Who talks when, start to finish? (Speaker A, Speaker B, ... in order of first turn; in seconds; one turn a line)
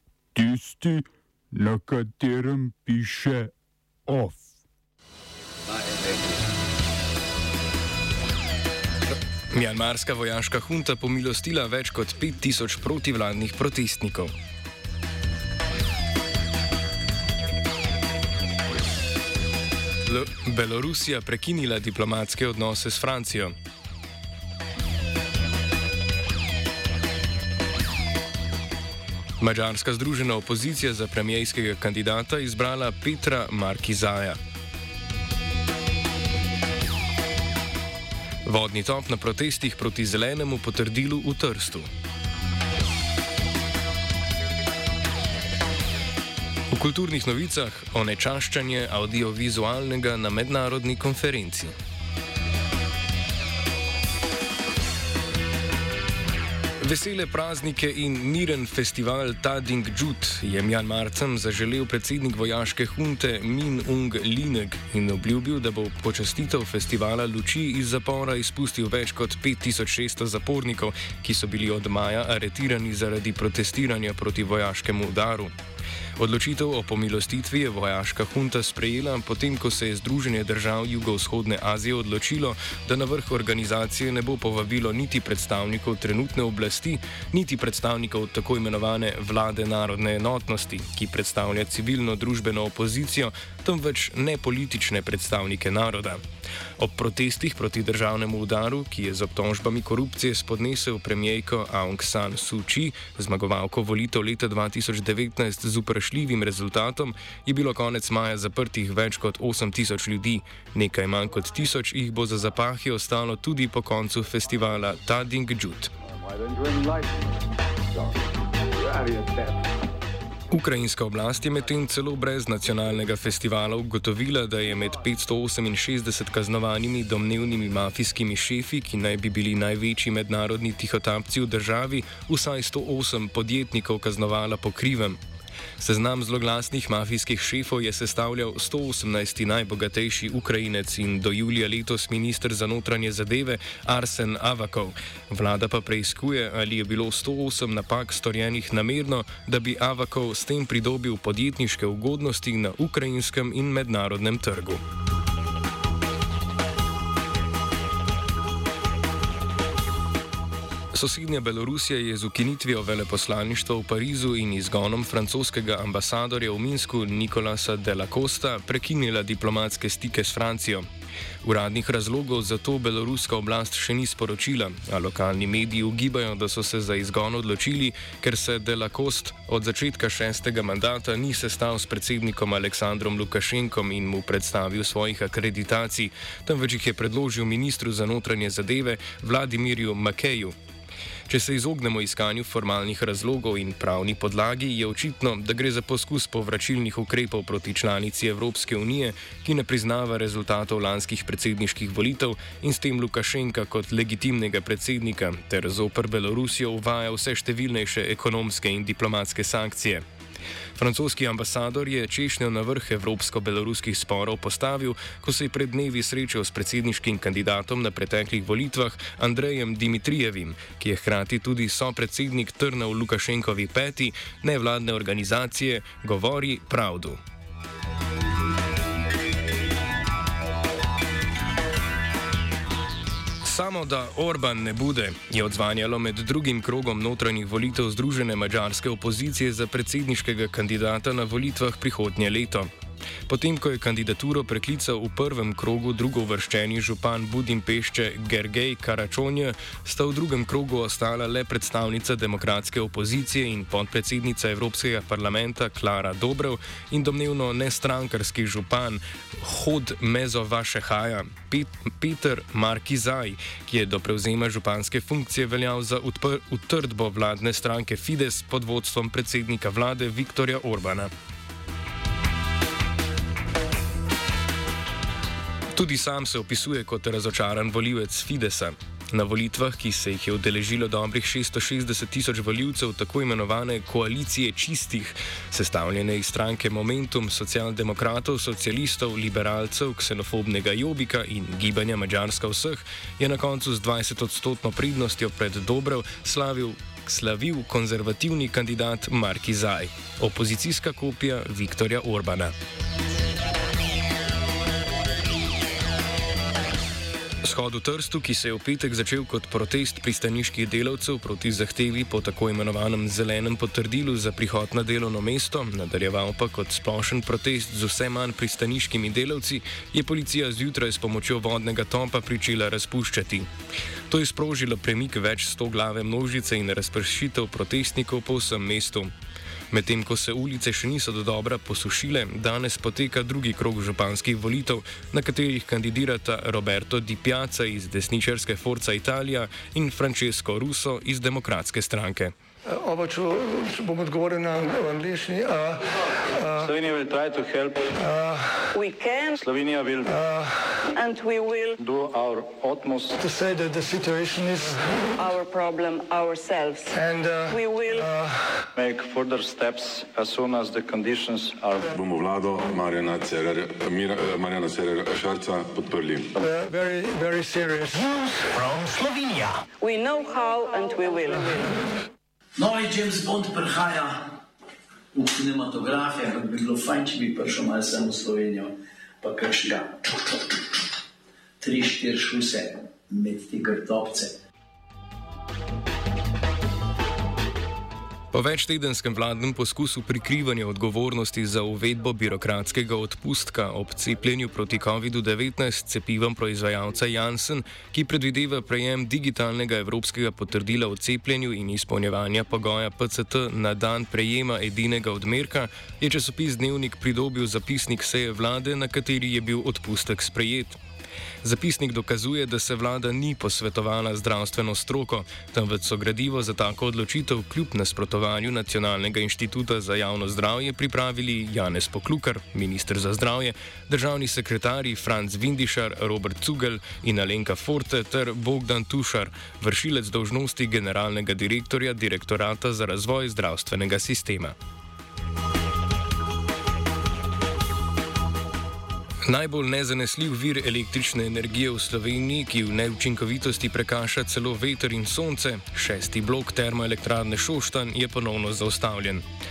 Speaker A: 0.3-3.5
Speaker A: 4.1-4.4
Speaker B: 9.5-14.3
Speaker B: 20.1-23.5
Speaker B: 29.4-34.4
Speaker B: 38.4-41.9
Speaker B: 46.7-51.7
Speaker B: 56.8-75.5
Speaker B: 76.2-96.2
Speaker B: 96.8-115.9
Speaker B: 120.5-135.2
Speaker B: 135.8-154.8
Speaker B: 160.9-170.8
Speaker B: 171.4-190.5
Speaker B: 191.3-210.0
Speaker B: 210.8-227.2
Speaker B: 233.4-242.7
Speaker B: 243.3-271.1
Speaker B: 275.7-302.5
Speaker B: 307.4-323.5
Speaker B: 324.1-329.1
Speaker B: 329.7-342.3
Speaker C: 342.7-345.8
Speaker D: 346.5-347.9
Speaker C: 348.1-348.6
Speaker E: 348.7-349.4
Speaker D: 349.3-350.2
Speaker C: 350.3-350.7
Speaker E: 350.9-351.7
Speaker D: 351.7-353.2
Speaker C: 353.2-355.0
Speaker E: 355.1-358.1
Speaker C: 356.9-358.4
Speaker D: 358.7-361.9
Speaker F: 361.9-366.3
Speaker C: 366.4-369.3
Speaker E: 369.8-371.8
Speaker G: 372.6-374.1
Speaker G: 375.1-378.7
Speaker G: 379.2-380.0
Speaker G: 381.6-384.3
Speaker B: 388.3-410.8
Speaker B: 411.4-434.5
Speaker B: 439.3-449.2